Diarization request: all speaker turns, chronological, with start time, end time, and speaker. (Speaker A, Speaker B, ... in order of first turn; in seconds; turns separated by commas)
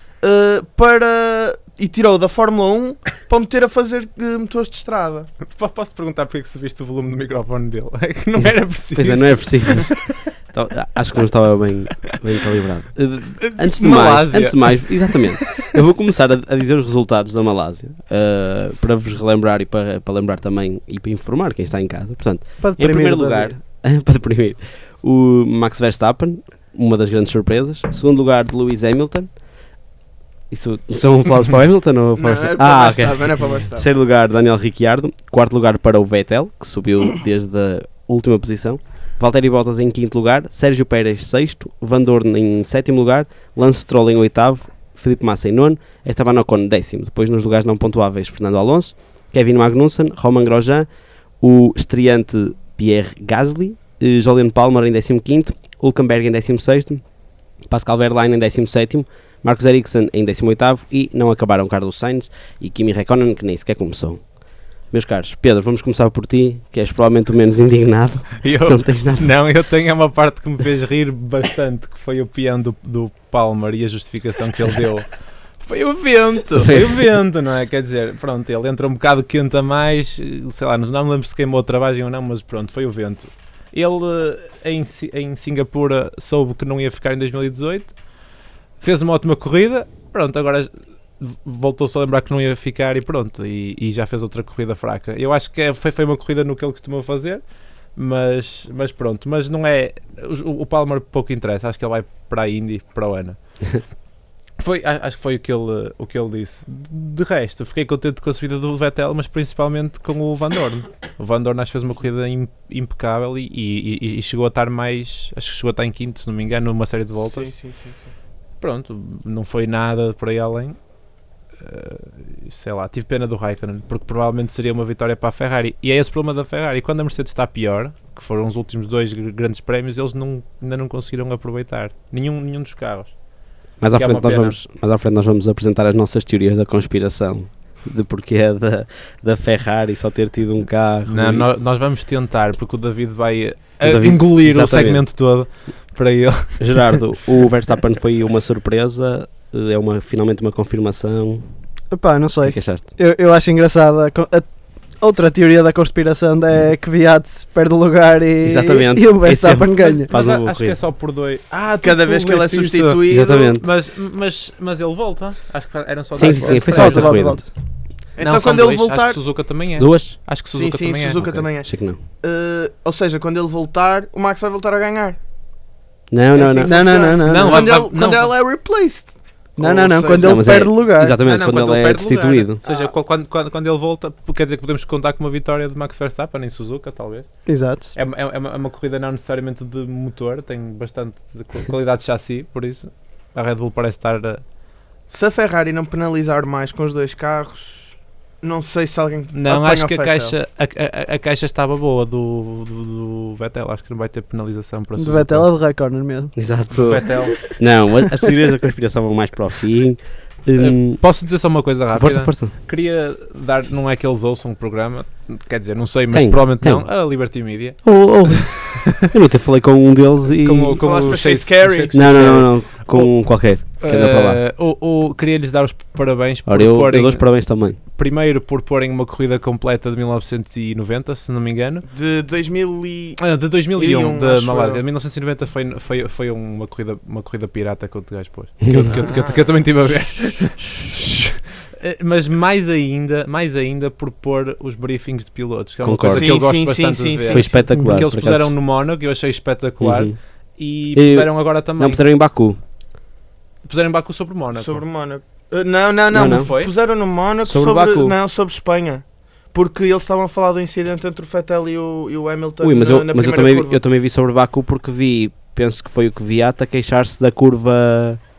Speaker A: 0.2-5.3, Speaker B: 5.4-10.2, Speaker C: 8.4-29.4, Speaker B: 13.4-15.7, Speaker D: 22.6-23.5, Speaker C: 30.5-50.9, Speaker A: 32.2-33.9, Speaker C: 51.4-57.0, Speaker C: 57.7-64.4, Speaker C: 64.9-69.3, Speaker B: 68.4-88.0, Speaker B: 88.8-97.4, Speaker B: 98.0-103.4, Speaker B: 104.6-117.5, Speaker A: 117.2-118.1, Speaker B: 118.6-120.8, Speaker B: 121.6-133.1, Speaker C: 133.8-141.5, Speaker B: 133.9-134.6, Speaker B: 141.1-147.0, Speaker C: 143.8-145.1, Speaker C: 146.6-151.5, Speaker D: 151.9-160.1, Speaker C: 152.4-152.9, Speaker C: 158.4-160.8, Speaker B: 160.1-167.2, Speaker A: 161.8-163.6, Speaker C: 163.1-163.7, Speaker C: 166.2-167.4, Speaker D: 166.2-167.5, Speaker A: 168.2-169.2, Speaker B: 168.2-171.2, Speaker C: 169.8-170.2, Speaker A: 170.5-175.2, Speaker C: 171.2-172.0, Speaker C: 176.1-177.0, Speaker A: 176.3-180.6, Speaker D: 176.6-177.7, Speaker B: 177.2-178.3, Speaker D: 179.6-181.2, Speaker C: 180.2-182.6, Speaker B: 181.2-187.3, Speaker A: 182.7-182.9, Speaker D: 187.5-187.9, Speaker B: 187.9-194.4, Speaker A: 195.1-200.3, Speaker B: 199.3-205.5, Speaker D: 205.0-206.4, Speaker C: 206.4-211.0, Speaker B: 206.7-207.4, Speaker B: 210.6-218.8, Speaker C: 211.9-212.5, Speaker C: 216.1-216.9, Speaker C: 217.8-220.8, Speaker B: 220.4-231.8, Speaker A: 220.8-222.4, Speaker C: 221.9-224.4, Speaker C: 226.5-227.8, Speaker A: 231.9-234.8, Speaker B: 233.2-252.0, Speaker C: 238.6-239.2, Speaker A: 238.8-239.7, Speaker C: 245.8-246.4, Speaker A: 246.0-247.6, Speaker C: 247.3-248.6, Speaker C: 249.8-250.2, Speaker C: 250.9-252.6, Speaker B: 253.7-254.8, Speaker A: 254.6-263.8, Speaker C: 256.1-256.5, Speaker B: 256.2-256.7, Speaker C: 257.4-258.2, Speaker C: 262.6-268.2